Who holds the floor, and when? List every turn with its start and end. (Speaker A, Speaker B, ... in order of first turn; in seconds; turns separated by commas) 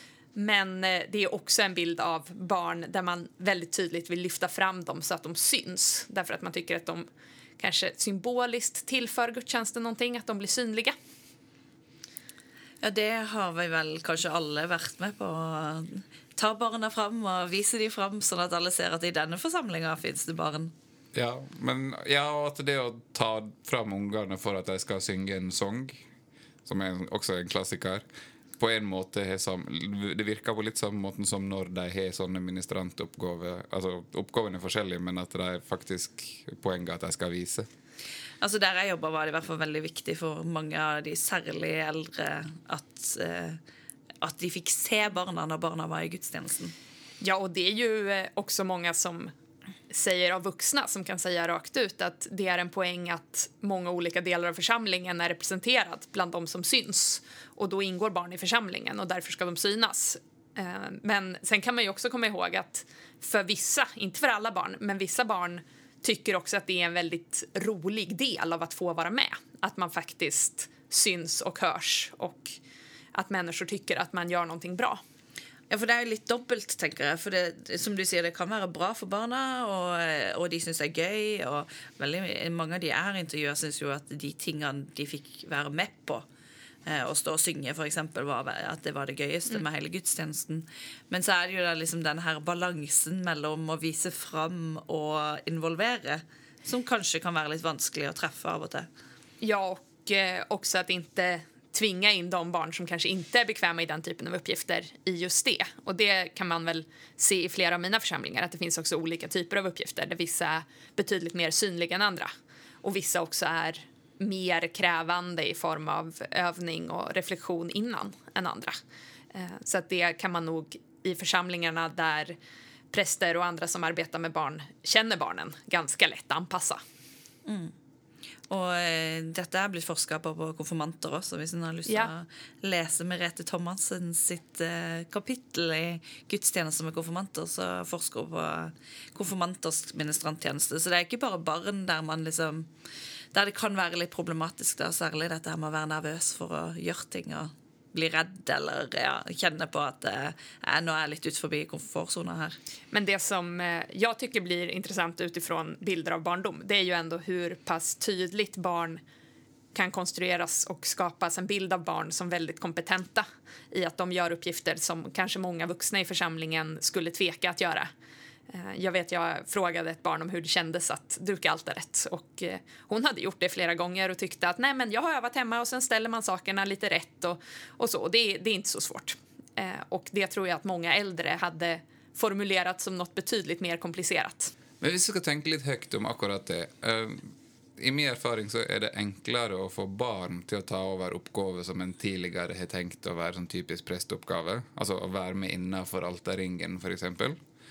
Speaker A: 0.3-7.1, Speaker A: 7.6-10.9, Speaker B: 12.8-20.7, Speaker C: 21.1-26.0, Speaker C: 26.6-28.0, Speaker C: 28.6-37.7, Speaker B: 38.4-43.6, Speaker B: 44.2-46.7, Speaker A: 47.2-49.3, Speaker A: 49.9-72.6, Speaker A: 73.1-75.0, Speaker B: 75.7-86.2, Speaker B: 86.8-98.9, Speaker A: 99.4-112.3, Speaker A: 112.8-118.8, Speaker A: 119.3-122.4, Speaker A: 122.9-126.8, Speaker B: 127.4-127.7, Speaker B: 128.5-142.7, Speaker B: 143.3-152.6, Speaker A: 152.9-159.0, Speaker A: 159.7-167.9, Speaker A: 168.5-184.5, Speaker C: 184.8-197.4